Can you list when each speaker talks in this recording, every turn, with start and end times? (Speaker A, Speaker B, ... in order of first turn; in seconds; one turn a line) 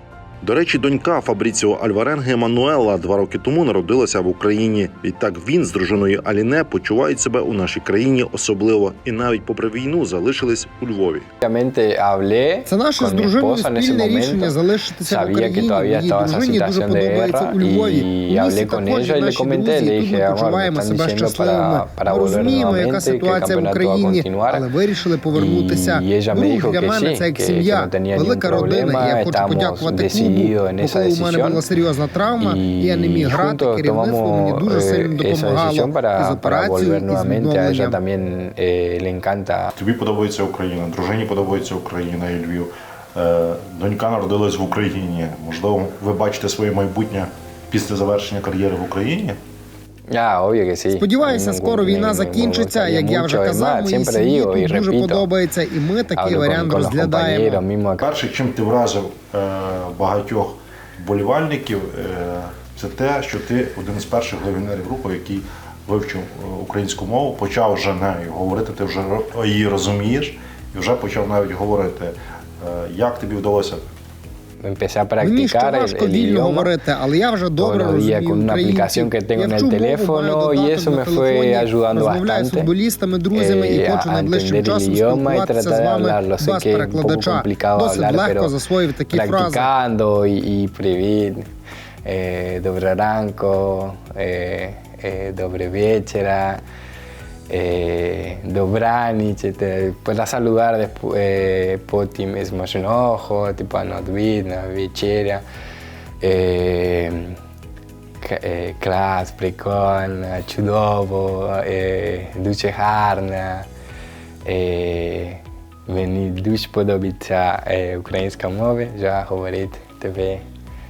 Speaker A: 0.4-11.2
Speaker B: 11.4-24.6
Speaker C: 12.7-38.0
Speaker B: 25.3-31.6
Speaker B: 32.4-39.7
Speaker A: 39.8-49.4
Speaker B: 50.1-55.3
Speaker C: 51.0-57.6
Speaker B: 56.1-58.0
Speaker A: 58.0-73.9
Speaker B: 74.6-76.7
Speaker C: 75.2-89.7
Speaker B: 77.6-82.7
Speaker B: 83.3-88.5
Speaker B: 89.1-91.4
Speaker B: 92.0-96.6
Speaker B: 97.5-105.4
Speaker B: 106.2-107.4
Speaker B: 108.2-113.7
Speaker B: 114.4-120.4